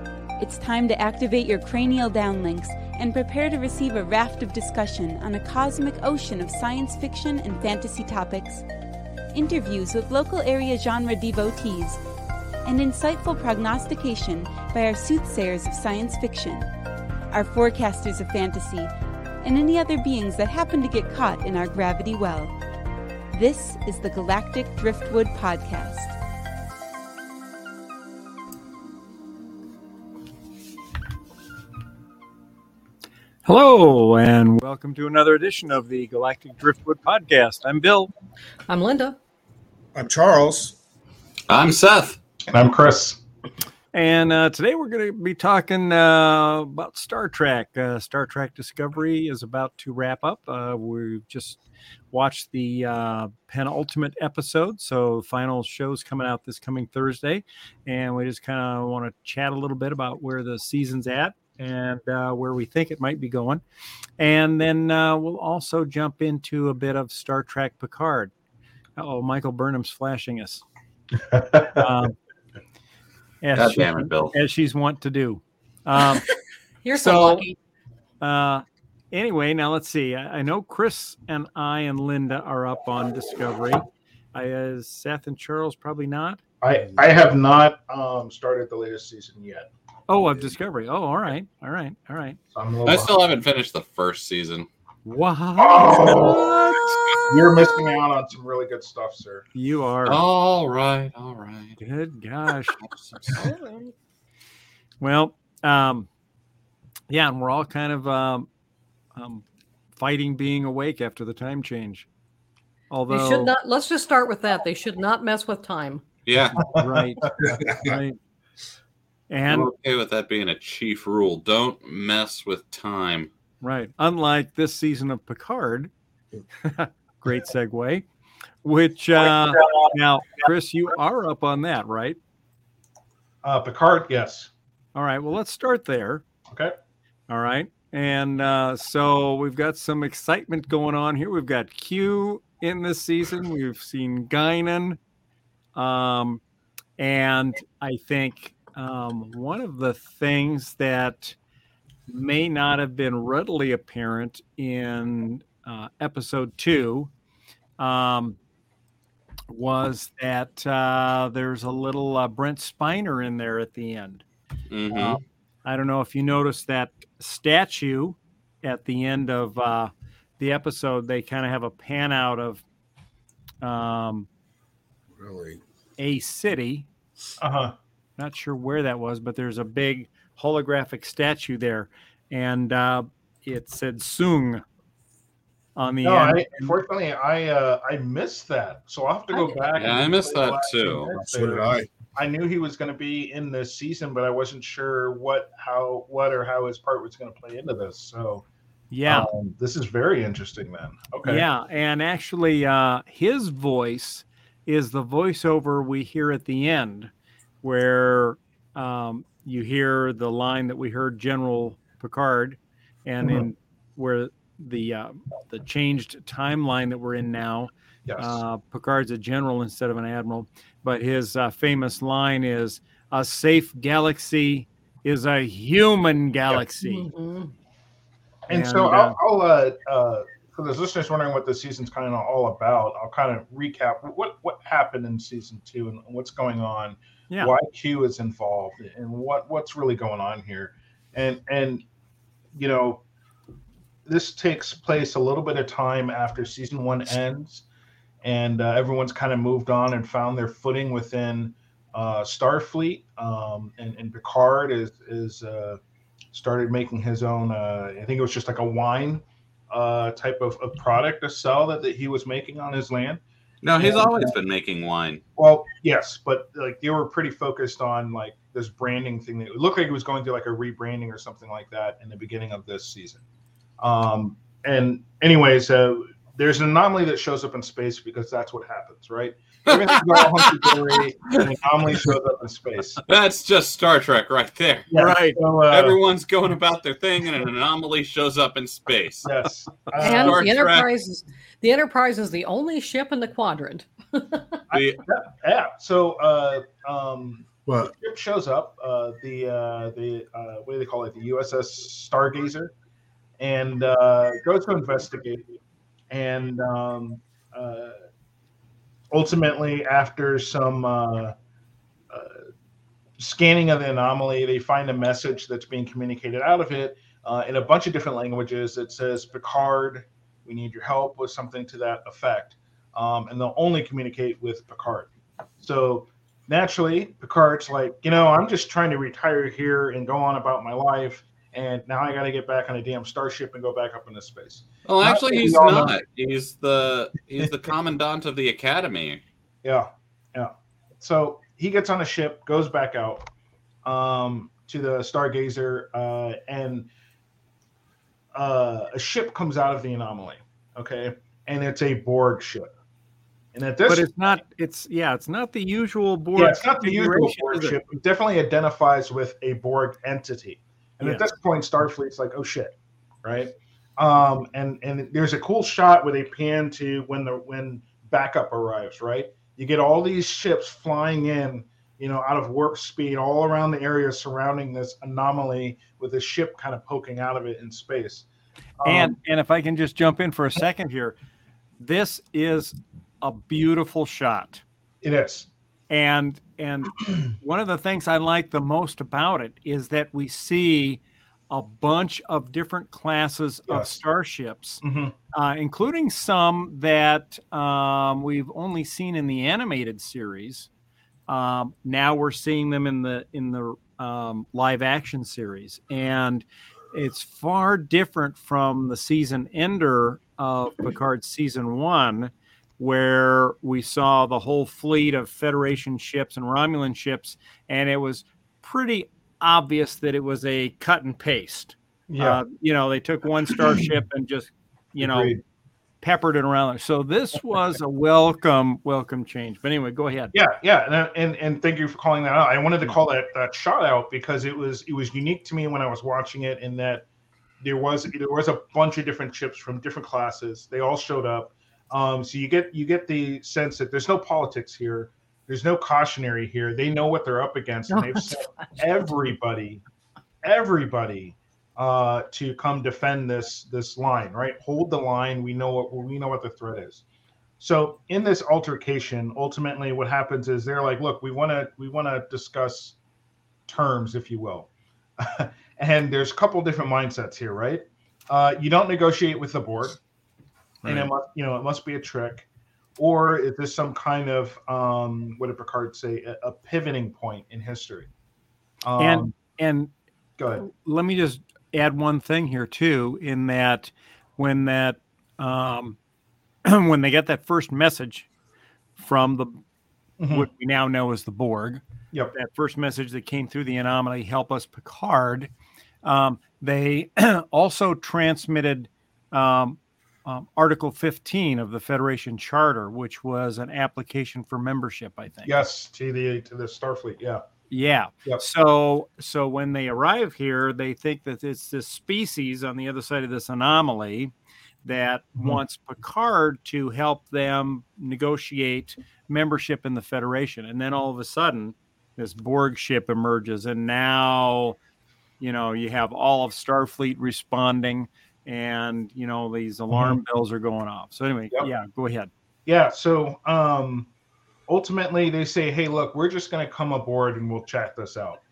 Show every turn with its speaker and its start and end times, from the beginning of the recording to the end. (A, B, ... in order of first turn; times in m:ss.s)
0:00.4-0:08.6 A
0:09.3-0:12.0 A
0:12.6-0:16.7 A
0:17.3-0:22.5 A
0:23.3-0:26.1 A
0:33.4-0:38.1 B
0:38.7-0:39.2 C
0:39.9-0:40.8 D
0:41.5-0:42.2 E
0:42.5-0:43.2 F
0:43.9-0:51.6 B
0:52.1-1:03.6 B
1:04.2-1:08.3 B
1:09.0-1:10.6 B
1:11.3-1:11.8 F
1:11.6-1:12.1 B
1:13.4-1:16.2 B
1:13.5-1:14.3 E
1:16.8-1:17.6 C
1:16.9-1:17.4 B
1:18.2-1:26.4 B
1:26.6-1:29.7 F
1:30.1-1:32.4 B
1:32.5-1:33.1 F
1:32.8-1:34.7 E
1:35.0-1:37.0 B
1:35.6-1:36.5 F
1:37.2-1:39.4 F
1:39.5-1:40.2 B
1:40.0-1:41.8 E
1:41.8-1:42.8 B
1:42.8-1:43.4 E
1:43.3-1:43.9 B
1:45.0-1:46.1 B
1:47.1-1:48.5 B
1:49.1-1:49.4 B
1:50.0-1:52.1 B
1:52.9-1:53.5 B
1:53.1-1:56.0 C
1:56.2-1:56.7 E
1:56.6-1:58.2 B
1:56.6-1:57.6 F
1:57.4-1:58.0 D
1:59.3-1:59.7 B
1:59.5-2:03.3 E
2:03.6-2:05.9 B
2:06.6-2:08.0 B
2:08.6-2:12.2 B
2:13.4-2:14.5 F
2:14.9-2:16.2 B
2:16.5-2:16.7 F
2:17.3-2:25.0 B
2:25.7-2:26.4 B
2:27.0-2:31.4 B
2:32.1-2:37.1 B
2:37.8-2:38.4 B
2:39.5-2:44.2 B
2:44.7-2:45.2 E
2:44.9-2:52.6 B
2:53.6-2:54.3 B
2:55.2-2:55.6 D
2:56.0-2:56.9 B
2:57.4-2:57.7 F
2:58.2-3:04.6 B
3:05.8-3:06.8 B
3:06.0-3:18.4 F
3:09.7-3:11.1 E
3:11.1-3:11.9 D
3:18.9-3:19.3 B
3:19.0-3:21.5 F
3:21.2-3:27.1 B
3:27.6-3:47.1 B
3:38.0-3:38.4 F
3:46.8-3:47.5 C
3:48.5-4:01.8 F
3:48.5-3:49.2 B
4:02.5-4:03.0 F
4:04.0-4:07.6 F
4:08.2-4:15.8 F
4:16.3-4:23.2 F
4:23.6-4:25.2 E
4:23.8-4:24.3 F
4:25.4-4:33.2 F
4:33.8-4:43.0 F
4:39.7-4:41.5 E
4:43.1-4:44.9 E
4:44.9-4:46.0 F
4:45.0-4:45.4 B
4:45.7-4:49.3 E
4:49.2-4:50.5 F
4:50.0-4:50.9 E
4:50.0-4:54.6 C
4:54.7-4:55.0 E
4:54.7-5:02.7 F
4:57.7-4:57.9 D
5:03.4-5:05.6 F
5:06.1-5:08.0 F
5:09.1-5:11.3 F
5:12.1-5:12.4 F
5:13.2-5:25.1 F
5:25.6-5:36.0 F
5:34.8-5:39.2 E
5:39.6-5:43.2 F
5:43.8-5:46.9 F
5:48.3-5:52.7 F
5:53.5-5:54.4 F
5:53.9-5:57.8 B
5:56.4-6:18.3 F
6:18.8-6:19.2 F
6:18.8-6:21.2 B
6:21.8-6:24.6 B
6:25.0-6:25.5 F
6:25.9-6:40.7 B
6:33.7-6:34.0 F
6:34.8-6:35.1 F
6:41.3-7:05.3 B
7:02.1-7:02.4 F
7:03.6-7:03.9 F
7:05.0-7:05.4 F
7:06.0-7:10.3 B
7:10.3-7:17.1 F
7:17.6-7:29.8 F
7:27.9-7:28.6 C
7:30.4-7:37.0 F
7:37.6-7:43.0 F
7:43.7-7:50.0 F
7:50.8-7:51.1 B
7:50.8-7:58.1 F
7:58.8-7:59.3 F
7:59.0-7:59.9 B
8:00.4-8:00.6 F
8:00.6-8:06.0 B
8:06.6-8:08.3 B
8:09.0-8:09.6 B
8:10.2-8:10.5 F
8:10.3-8:11.8 B
8:12.3-8:15.5 B
8:16.0-8:25.6 B
8:25.4-8:27.4 F
8:27.7-8:34.3 B
8:34.8-8:44.8 B
8:45.4-8:52.3 B
8:49.9-8:50.2 F
8:52.6-8:54.1 F
8:54.7-8:58.4 F